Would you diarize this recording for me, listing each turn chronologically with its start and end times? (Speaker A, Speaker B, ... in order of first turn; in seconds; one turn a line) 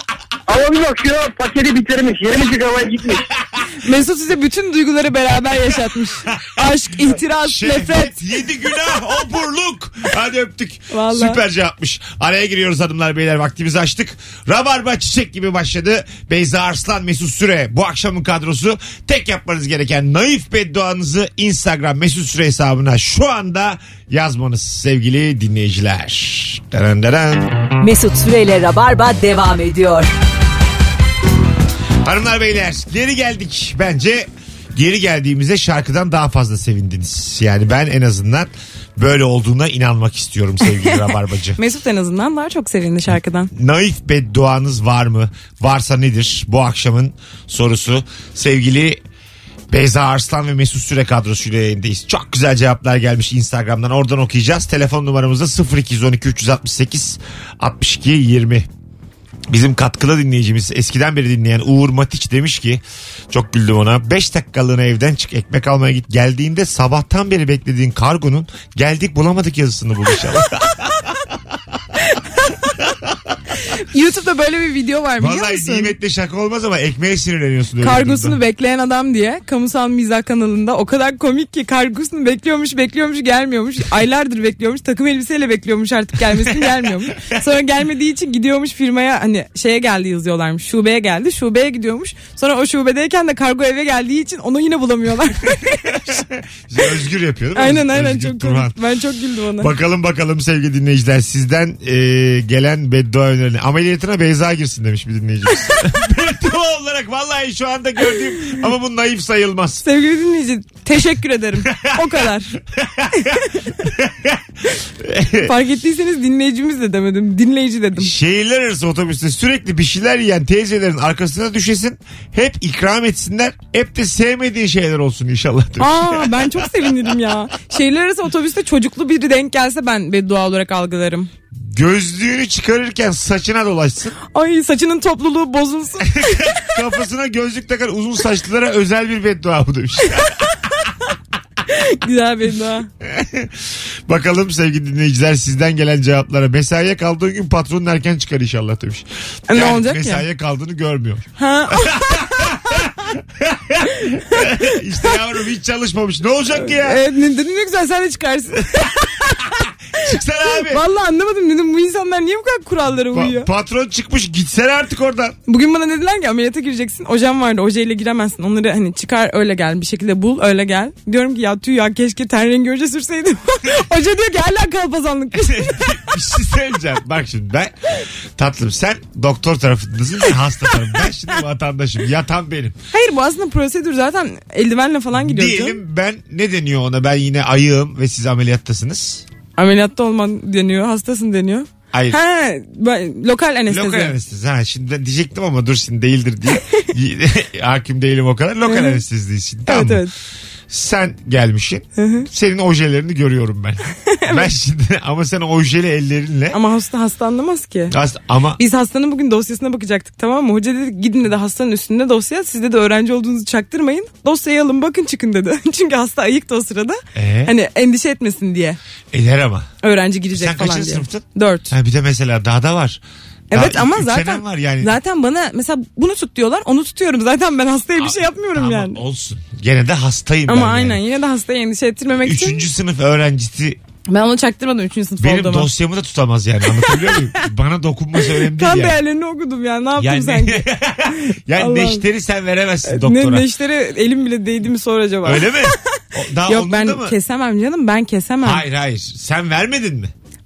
Speaker A: 0.5-3.2
Speaker B: 3.8-8.2
Speaker C: 7.4-27.5
Speaker B: 10.9-11.4
Speaker D: 27.8-30.1
Speaker C: 32.0-41.6
Speaker B: 41.6-43.5
Speaker C: 43.5-49.0
Speaker C: 49.7-58.7
Speaker C: 59.5-71.1
Speaker B: 73.7-75.9
Speaker C: 75.2-78.4
Speaker B: 77.8-96.2
Speaker C: 95.9-98.8
Speaker B: 97.5-99.7
Speaker C: 99.6-109.8
Speaker B: 109.8-112.5
Speaker C: 111.6-114.4
Speaker C: 115.0-115.5
Speaker B: 115.4-118.1
Speaker C: 118.0-126.7
Speaker B: 125.8-131.3
Speaker C: 131.5-134.2
Speaker B: 134.3-136.7
Speaker C: 136.1-140.4
Speaker B: 141.7-142.9
Speaker C: 143.0-157.0
Speaker B: 149.5-150.2
Speaker B: 151.4-152.5
Speaker B: 154.3-154.7
Speaker B: 156.6-159.4
Speaker C: 159.6-160.8
Speaker B: 160.7-163.5
Speaker C: 163.0-165.3
Speaker B: 165.5-175.9
Speaker C: 175.3-177.7
Speaker C: 178.3-182.8
Speaker B: 182.9-185.8
Speaker C: 185.1-189.2
Speaker B: 189.6-194.1
Speaker C: 191.9-192.2
Speaker C: 193.7-200.1
Speaker B: 198.7-199.0
Speaker B: 199.7-200.1
Speaker C: 200.7-206.6
Speaker B: 202.0-202.2
Speaker B: 204.1-204.5
Speaker B: 206.5-207.9
Speaker C: 207.9-208.6
Speaker B: 208.6-218.8
Speaker C: 217.1-217.5
Speaker C: 219.1-219.7
Speaker B: 219.8-221.7
Speaker C: 220.3-224.9
Speaker B: 223.5-229.0
Speaker C: 228.0-231.0
Speaker B: 230.5-232.6
Speaker C: 232.2-233.8
Speaker B: 234.1-235.7
Speaker C: 235.2-239.0
Speaker B: 236.8-237.1
Speaker B: 238.4-240.7
Speaker C: 240.0-243.5
Speaker B: 241.6-242.0
Speaker B: 242.8-245.8
Speaker C: 245.2-247.1
Speaker B: 246.5-248.6
Speaker C: 248.4-250.1